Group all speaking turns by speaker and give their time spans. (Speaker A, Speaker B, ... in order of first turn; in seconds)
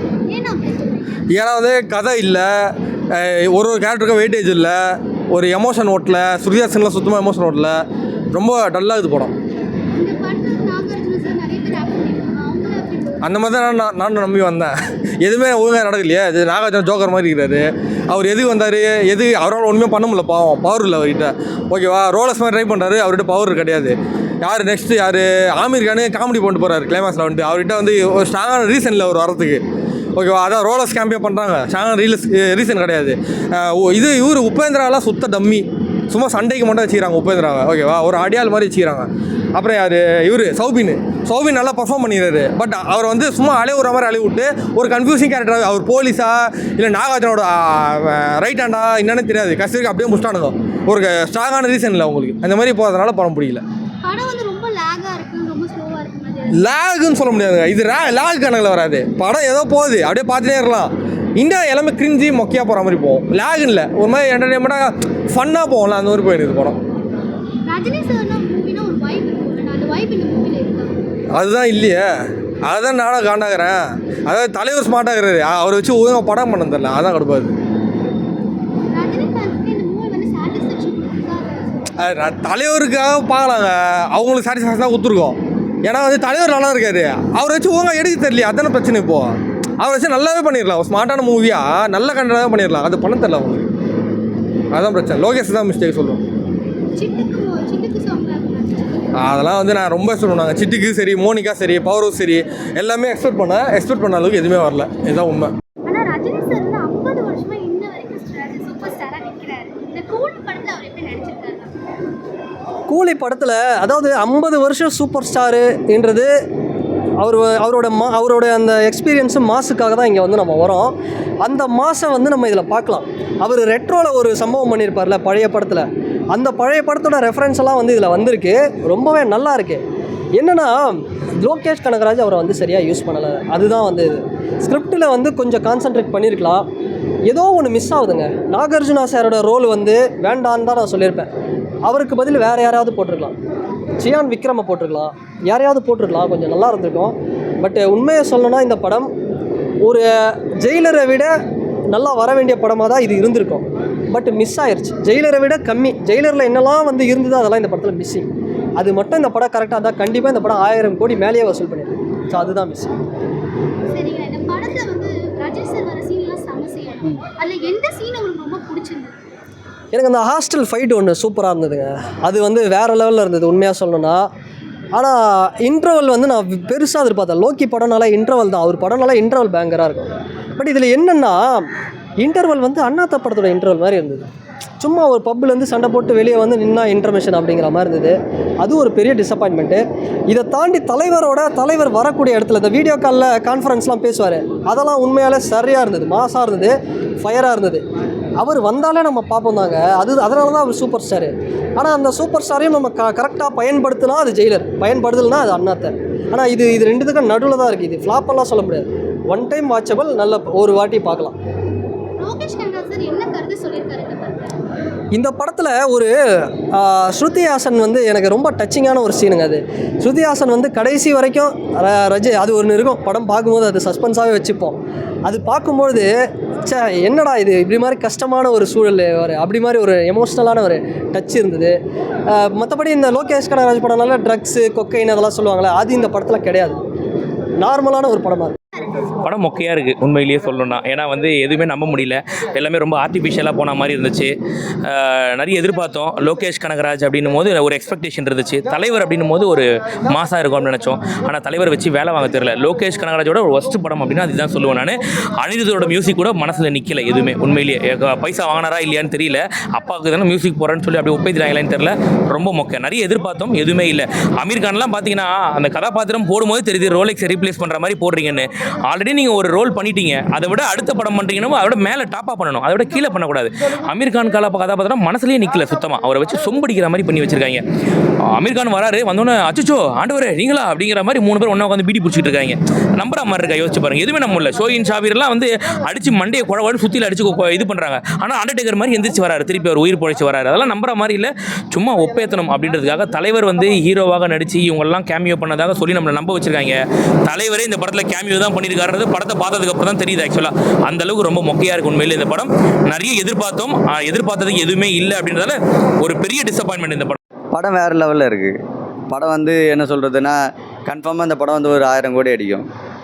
Speaker A: 0.3-1.1, 9.9-13.2, 54.0-56.7, 67.7-71.0, 78.9-81.9, 97.0-99.3, 105.9-111.7, 163.9-169.2, 212.2-214.5
Speaker B: 1.3-2.5, 3.1-4.8, 5.3-7.8, 8.3-9.3, 13.2-29.6, 30.2-53.6, 56.5-66.8, 71.3-72.1, 72.7-77.5, 82.0-93.7, 94.7-96.2, 99.2-105.5
Speaker C: 112.9-116.3, 117.2-129.8, 130.4-136.7, 137.3-141.3, 141.8-143.4, 144.0-149.1, 149.8-151.4, 151.9-162.9, 169.9-174.3, 174.9-184.3, 184.8-197.8, 198.4-211.4, 215.1-236.8, 237.6-238.6
Speaker D: 239.2-244.3, 244.8-277.6, 278.4-307.2
Speaker E: 307.5-312.7